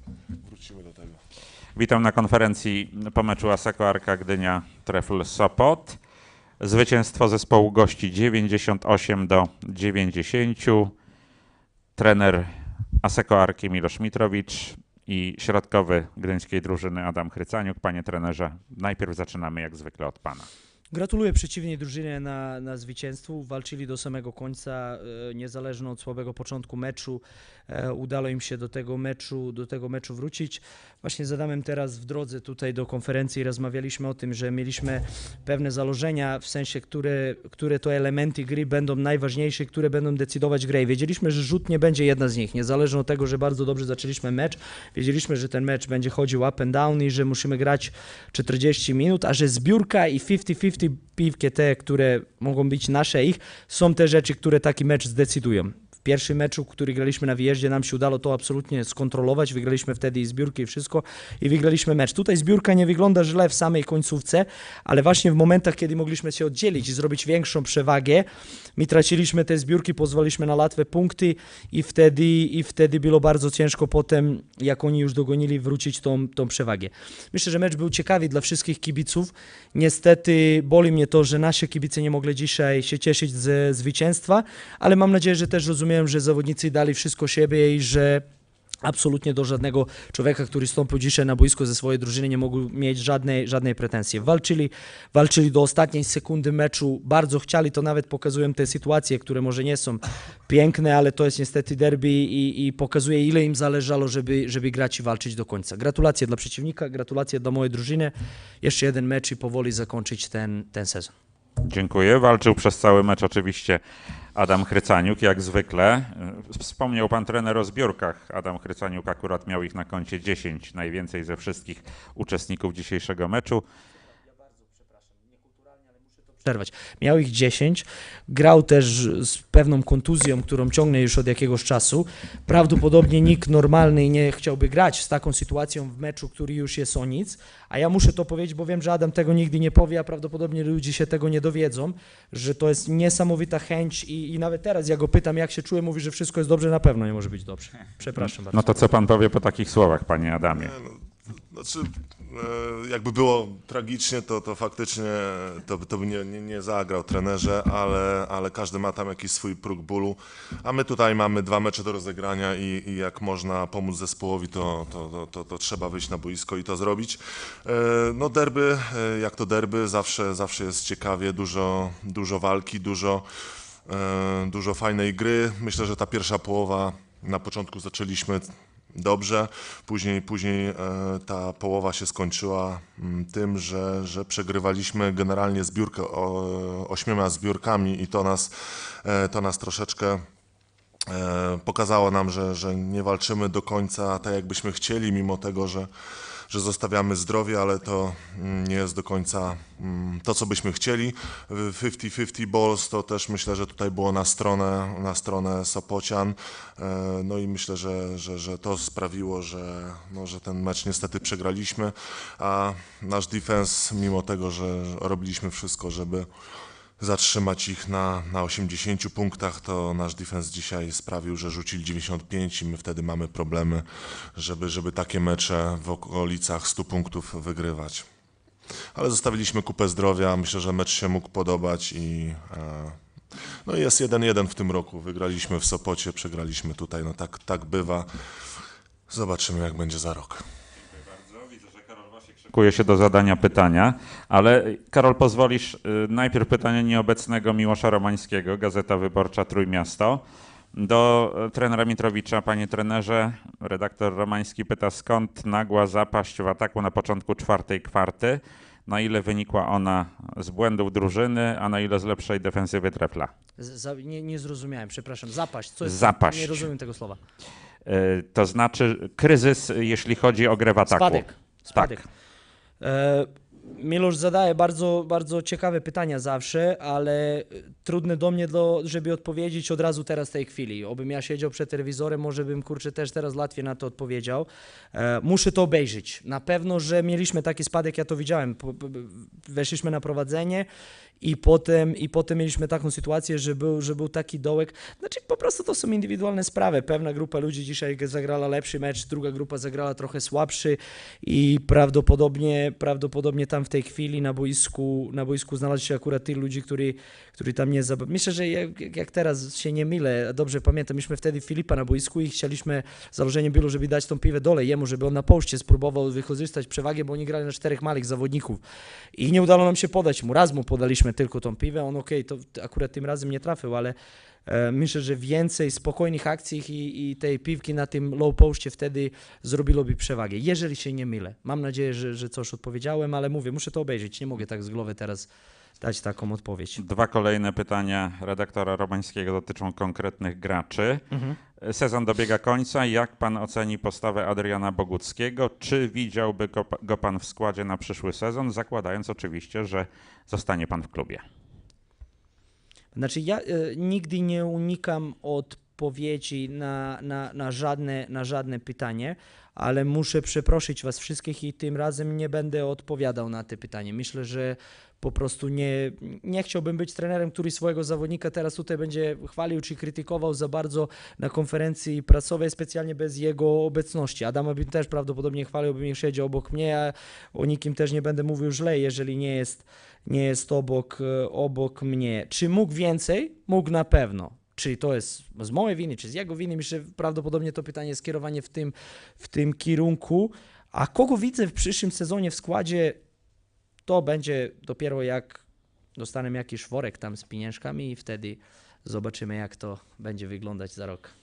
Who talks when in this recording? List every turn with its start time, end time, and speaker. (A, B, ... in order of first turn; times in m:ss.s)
0:00.4-0:01.2 A
0:01.8-0:06.0 B
0:06.6-0:10.9 B
0:12.0-0:20.5 B
0:20.9-1:08.3 C
1:08.8-1:28.2 C
1:28.8-1:51.1 C
1:51.7-1:53.8 B
1:54.4-2:03.6 B
2:06.4-2:28.6 C
2:28.2-2:30.7 B
2:30.5-2:53.3 A
2:53.9-3:10.2 A
3:11.1-3:15.9 A
3:16.5-3:36.3 A
3:37.0-3:48.1 A
3:49.0-3:58.1 A
3:59.1-4:00.4 A
4:00.8-4:10.2 B
4:10.7-4:23.3 B
4:23.6-4:27.2 C
4:25.8-4:26.7 B
4:27.8-4:32.0 B
4:30.9-4:32.0 C
4:32.8-4:50.7 C
4:51.2-5:18.6 C
5:19.2-5:24.0 C
5:24.5-5:35.3 C
5:35.8-5:36.8 C
5:36.8-5:41.0 B
5:41.1-5:41.4 C
5:41.6-5:51.2 B
5:52.9-6:33.0 C
6:33.9-6:35.4 C
6:36.0-6:41.1 C